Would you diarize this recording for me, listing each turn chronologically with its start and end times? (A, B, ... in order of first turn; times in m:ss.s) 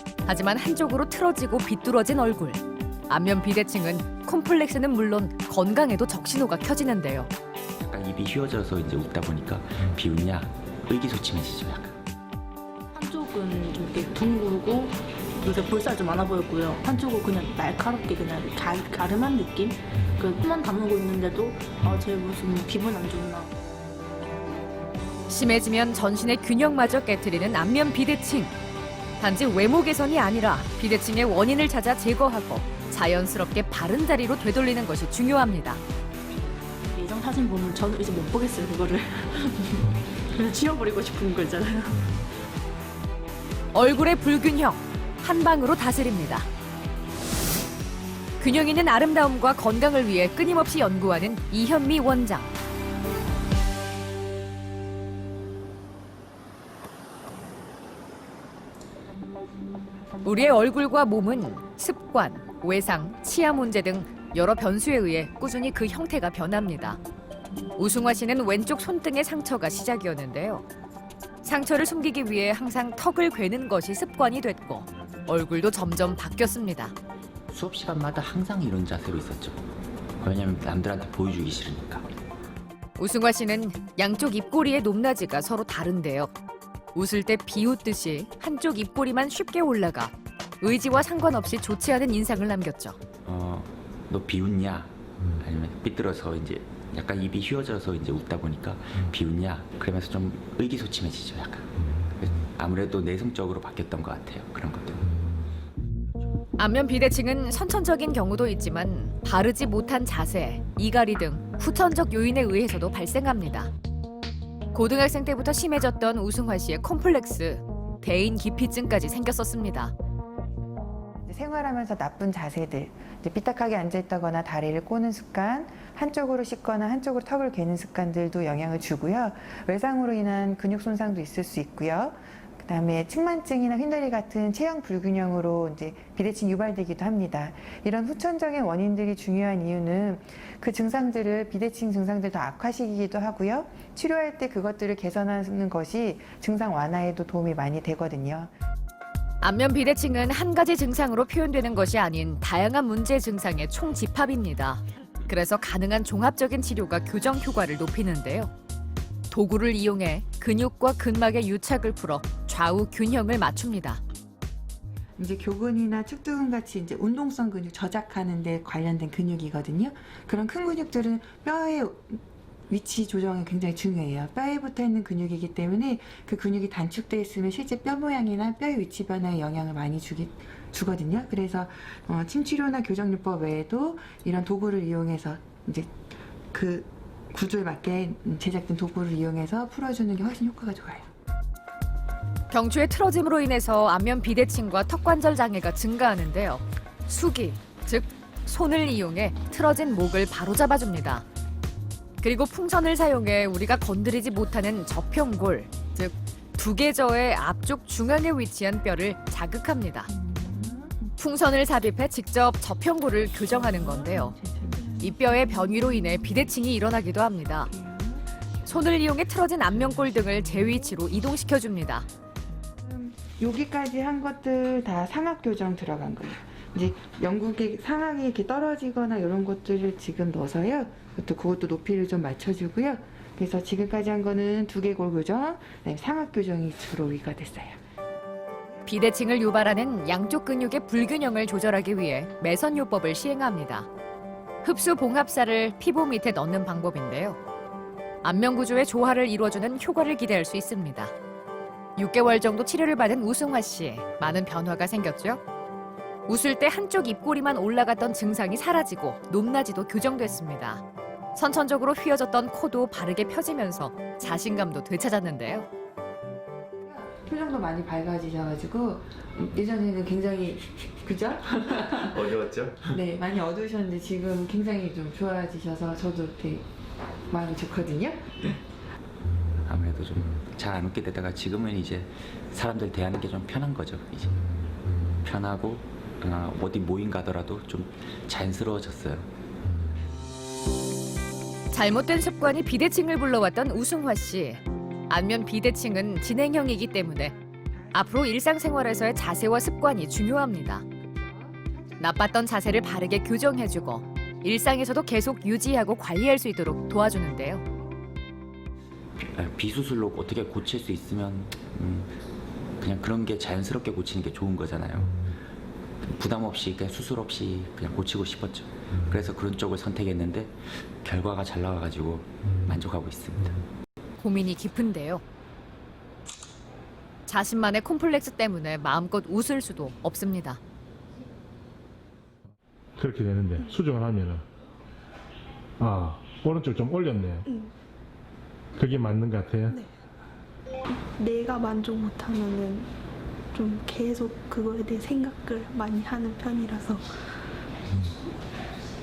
0:00.2-0:07.3 A
0:07.8-0:12.0 B
0:12.9-0:23.5 C
0:25.3-0:28.5 A
0:29.2-0:35.8 A
0:36.9-0:42.1 C
0:43.7-0:46.5 A
0:48.4-0:52.5 A
1:00.2-1:07.0 A
1:07.8-1:10.6 A
1:11.4-1:16.9 A
1:17.5-1:19.6 B
1:20.2-1:22.1 B
1:23.0-1:26.3 A
1:26.9-1:33.0 A
1:33.2-1:45.1 B
1:46.6-1:53.7 A
1:54.7-1:59.9 A
2:01.2-2:28.5 D
2:29.4-2:38.5 A
2:39.3-2:44.0 A
2:45.2-3:11.1 D
3:12.5-3:21.2 A
3:22.2-3:30.1 A
3:30.1-3:31.2 D
3:31.2-3:34.4 A
3:33.5-3:36.5 D
3:35.0-3:37.7 A
3:37.7-3:38.3 D
3:38.6-3:42.0 A
3:39.7-3:41.0 D
3:42.6-3:57.8 D
3:58.8-4:03.9 A
4:04.6-4:07.4 A
4:08.2-4:11.1 A
4:12.0-4:15.4 A
4:16.3-4:20.8 A
4:21.4-4:25.6 A
4:26.8-4:36.6 D
4:32.3-4:32.8 B
4:37.3-4:38.6 D
4:39.6-4:49.3 B
4:51.7-4:57.3 A
4:57.7-4:58.1 D
4:57.9-5:00.8 A
5:01.0-5:02.2 D
5:02.0-5:07.6 A
5:09.2-5:12.2 B
5:12.8-5:15.3 B
5:16.0-5:23.6 B
5:24.2-5:25.2 A
5:27.2-5:30.6 A
5:33.0-5:34.4 E
5:35.8-5:37.4 E
5:38.8-5:39.8 E
5:40.9-5:42.9 F
5:43.5-5:47.1 F